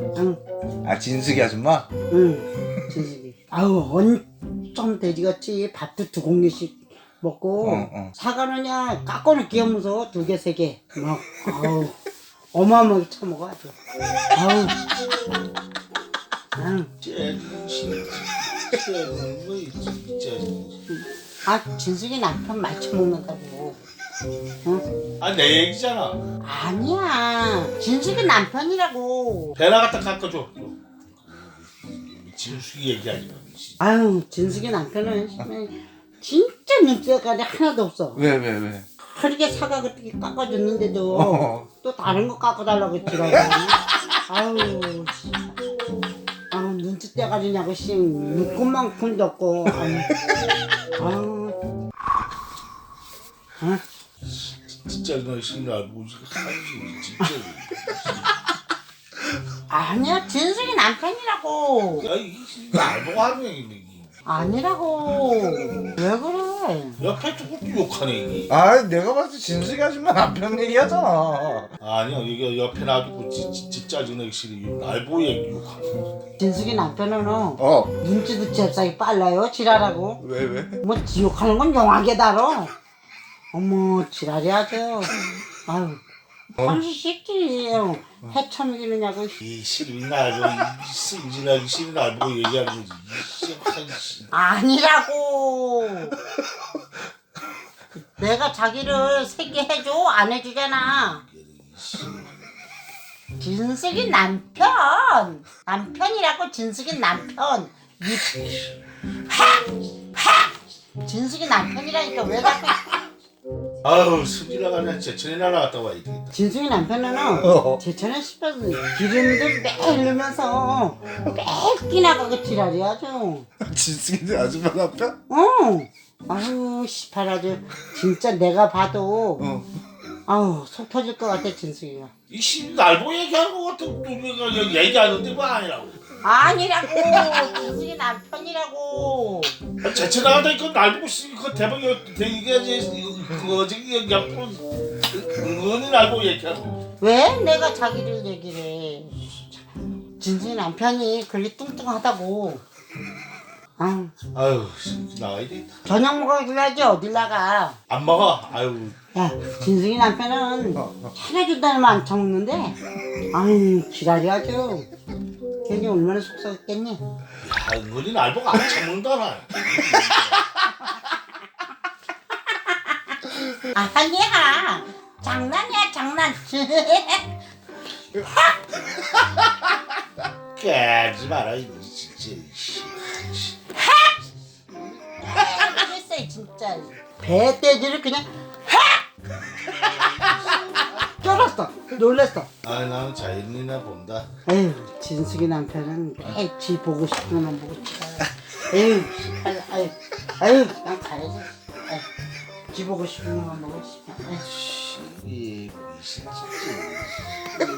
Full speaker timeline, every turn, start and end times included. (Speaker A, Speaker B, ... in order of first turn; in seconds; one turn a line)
Speaker A: 0.1-0.4
Speaker B: 0.8-1.9
Speaker A: 2.1-12.0
Speaker B: 7.6-8.1
Speaker A: 12.5-13.8
Speaker A: 14.3-14.8
Speaker A: 16.6-16.9
Speaker C: 17.0-20.8
Speaker A: 20.9-23.8
Speaker C: 25.2-26.2
Speaker A: 26.4-29.6
Speaker C: 29.6-33.8
Speaker A: 33.8-38.2
Speaker B: 38.1-38.9
Speaker A: 39.0-45.6
Speaker B: 41.1-41.7
Speaker A: 46.5-50.1
Speaker A: 51.0-51.6
Speaker C: 54.2-58.2
Speaker A: 59.7-62.1
Speaker C: 62.0-64.1
Speaker A: 64.2-67.0
Speaker C: 67.0-68.5
Speaker B: 68.5-71.7
Speaker C: 71.8-76.1
Speaker A: 76.4-80.2
Speaker B: 77.6-78.0
Speaker B: 80.2-80.8
Speaker A: 80.8-82.7
Speaker A: 83.5-86.0
Speaker A: 86.6-89.4
Speaker C: 89.4-94.3
Speaker A: 94.3-96.2
Speaker A: 98.0-101.2
Speaker C: 101.2-102.5
Speaker A: 103.4-108.6
Speaker A: 109.3-109.6
Speaker A: 110.1-110.5
Speaker A: 111.0-113.0
Speaker C: 113.8-116.3
Speaker A: 116.3-123.5
Speaker B: 117.4-117.8
Speaker B: 123.6-125.2
Speaker A: 125.3-129.5
Speaker B: 129.4-129.7
Speaker A: 130.3-132.1
Speaker C: 132.3-136.1
Speaker A: 136.2-139.6
Speaker C: 139.8-146.8
Speaker A: 147.0-149.4
Speaker A: 150.2-152.6
Speaker A: 153.8-154.1
Speaker C: 154.3-155.7
Speaker A: 155.8-157.8
Speaker C: 157.9-159.0
Speaker A: 159.1-162.8
Speaker A: 163.3-164.9
Speaker A: 165.6-167.0
Speaker C: 167.4-170.4
Speaker A: 172.5-177.3
Speaker A: 178.1-178.8
Speaker C: 180.5-183.6
Speaker A: 183.8-184.1
Speaker A: 185.1-189.0
Speaker A: 190.9-192.5
Speaker C: 192.6-194.3
Speaker A: 194.4-202.1
Speaker A: 202.7-204.4
Speaker C: 204.4-207.3